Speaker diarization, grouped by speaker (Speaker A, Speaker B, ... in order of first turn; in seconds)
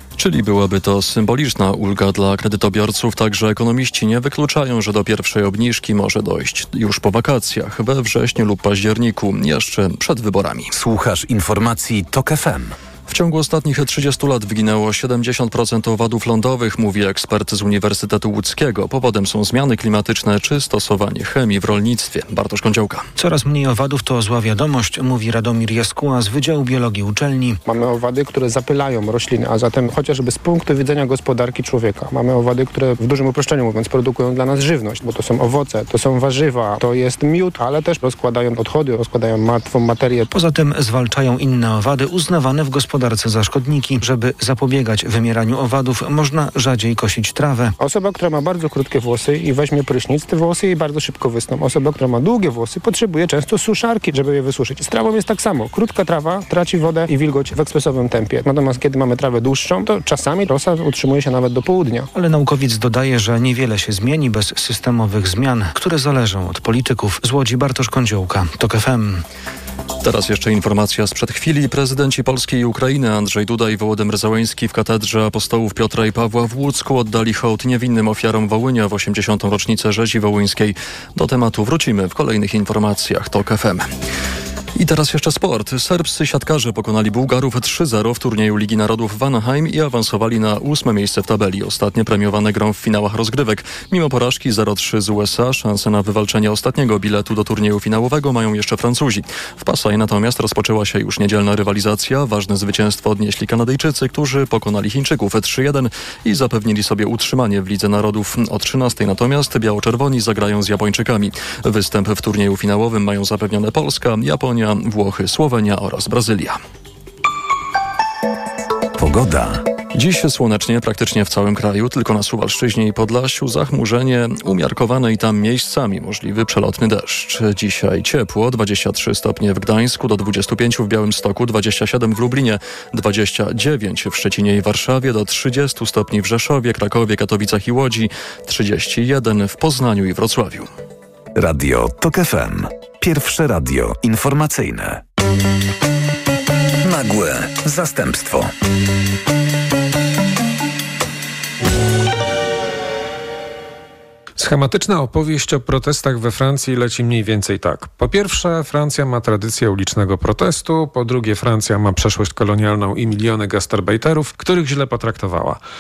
Speaker A: 0.2-10.7, 13.1-23.1, 70.0-83.9, 84.8-116.6, 119.9-140.7
Speaker B: 10.7-12.8, 119.0-119.6, 141.3-145.0, 146.8-148.5
Speaker C: 23.2-27.6, 40.3-47.8, 62.1-69.2
Speaker D: 27.6-40.3, 47.8-62.1
Speaker E: 154.4-165.6